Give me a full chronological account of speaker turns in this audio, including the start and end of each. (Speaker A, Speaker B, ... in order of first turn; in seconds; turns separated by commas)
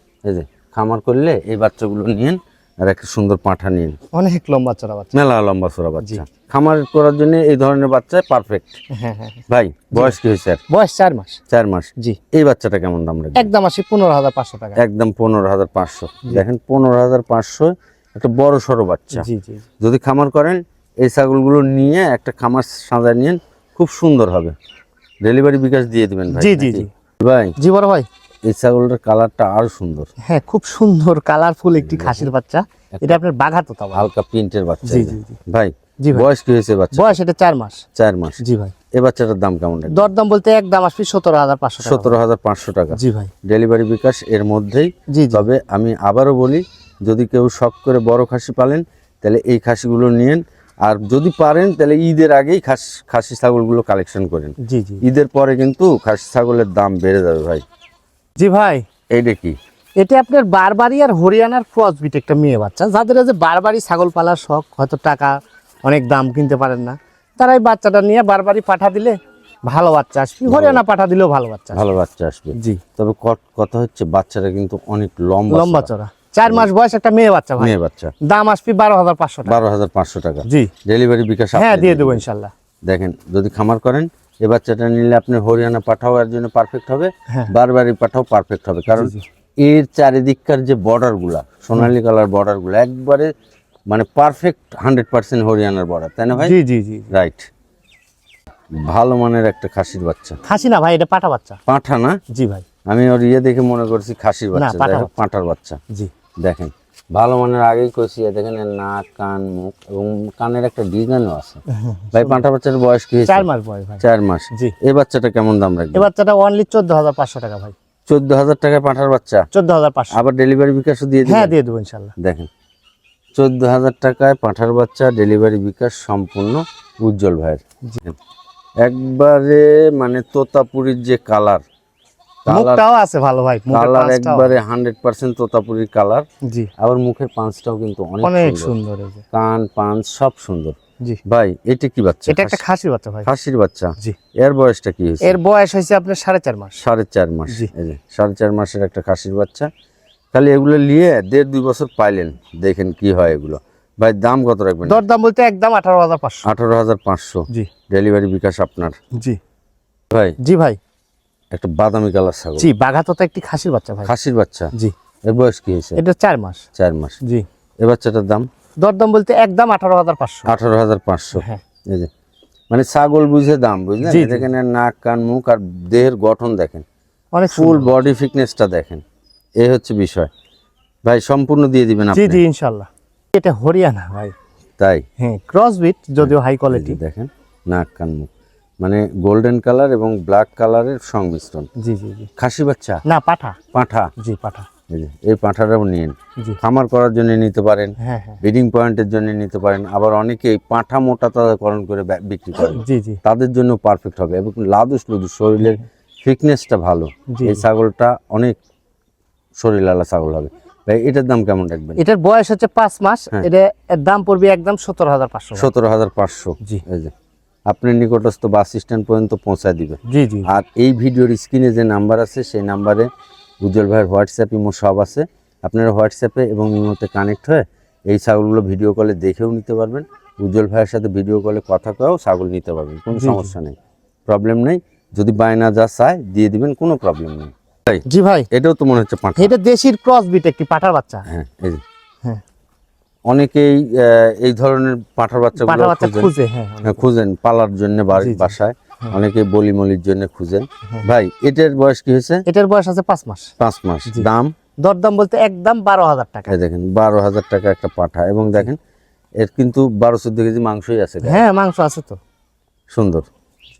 Speaker A: 0.2-4.0, Speaker B: 4.1-5.1, Speaker A: 5.1-8.8, Speaker B: 8.9-10.2, Speaker A: 9.5-10.6, Speaker B: 10.7-11.4, Speaker A: 11.5-13.5, Speaker B: 13.3-14.8, Speaker A: 14.8-19.3, Speaker B: 19.1-19.6, Speaker A: 19.8-24.5, Speaker A: 25.2-27.5, Speaker B: 26.3-26.9, Speaker B: 27.6-28.1, Speaker A: 28.4-30.1, Speaker B: 30.2-34.1, Speaker A: 31.8-32.3, Speaker A: 33.9-37.2, Speaker B: 34.8-35.4, Speaker B: 36.9-37.8, Speaker A: 37.9-38.4, Speaker B: 38.4-38.7, Speaker A: 38.9-40.1, Speaker B: 39.9-42.2, Speaker A: 41.8-57.6, Speaker B: 42.9-43.3, Speaker B: 45.1-45.5, Speaker B: 54.6-55.0, Speaker B: 58.4-58.9, Speaker A: 59.1-59.6, Speaker B: 60.0-71.8, Speaker A: 70.5-70.8, Speaker A: 71.7-75.9, Speaker B: 72.5-72.8, Speaker B: 75.5-79.6, Speaker A: 77.6-78.1, Speaker A: 79.5-82.2, Speaker B: 80.5-80.7, Speaker B: 81.5-82.5, Speaker A: 82.8-93.3, Speaker B: 88.9-89.2, Speaker A: 93.9-96.6, Speaker B: 96.3-97.1, Speaker A: 97.1-97.5, Speaker A: 98.8-100.4, Speaker B: 100.4-101.6, Speaker A: 101.7-102.2, Speaker B: 102.3-102.6, Speaker A: 102.9-105.8, Speaker B: 104.5-105.2, Speaker A: 106.4-111.6, Speaker B: 111.7-112.4, Speaker A: 112.1-113.5, Speaker B: 113.3-114.7, Speaker A: 114.0-116.1, Speaker B: 115.9-117.7, Speaker A: 118.1-119.5, Speaker B: 119.5-120.2, Speaker A: 120.1-121.5, Speaker B: 121.2-122.1, Speaker A: 122.2-122.5, Speaker A: 123.3-128.2, Speaker A: 128.8-131.6, Speaker A: 132.4-132.8, Speaker B: 132.5-134.5, Speaker A: 133.7-136.2, Speaker B: 136.4-136.7, Speaker A: 136.8-138.7, Speaker B: 138.2-139.2, Speaker A: 139.3-142.6, Speaker B: 142.3-143.3, Speaker A: 143.2-145.4, Speaker B: 145.2-146.8, Speaker A: 146.8-149.7, Speaker A: 150.3-155.0, Speaker B: 154.8-156.5, Speaker A: 156.4-159.0, Speaker A: 160.1-160.4, Speaker B: 160.4-160.8, Speaker A: 161.5-162.7, Speaker B: 162.6-164.1, Speaker A: 164.0-164.7, Speaker A: 165.3-166.0, Speaker B: 165.9-166.6, Speaker A: 166.8-167.2, Speaker A: 167.8-168.4, Speaker B: 168.8-170.5, Speaker A: 170.4-172.1, Speaker B: 171.3-171.6, Speaker A: 172.7-176.8, Speaker B: 174.0-174.5, Speaker B: 177.3-177.9, Speaker A: 177.5-179.0, Speaker A: 179.6-180.3, Speaker A: 181.0-182.4, Speaker B: 182.1-184.3, Speaker A: 184.8-185.0, Speaker B: 185.2-187.0, Speaker A: 186.2-188.3, Speaker A: 188.8-191.7, Speaker B: 191.8-192.3, Speaker A: 192.4-193.0, Speaker B: 193.0-193.6, Speaker A: 193.7-194.1, Speaker B: 194.2-194.7, Speaker A: 194.9-208.6, Speaker B: 198.0-198.4, Speaker B: 202.6-203.2, Speaker B: 207.3-207.6, Speaker A: 209.6-212.0, Speaker B: 212.0-215.7, Speaker A: 215.5-217.1, Speaker A: 217.7-223.1, Speaker B: 220.1-220.5, Speaker A: 223.6-233.8, Speaker B: 233.1-233.6, Speaker A: 234.3-239.5, Speaker B: 238.1-238.5, Speaker B: 239.4-241.2, Speaker A: 241.3-241.8, Speaker A: 243.3-246.3, Speaker B: 245.6-247.1, Speaker A: 246.8-252.4, Speaker B: 248.2-249.2, Speaker B: 252.5-253.5, Speaker A: 253.6-254.5, Speaker B: 254.8-256.5, Speaker A: 256.5-258.8, Speaker A: 259.4-261.4, Speaker B: 261.2-262.2, Speaker A: 262.9-263.2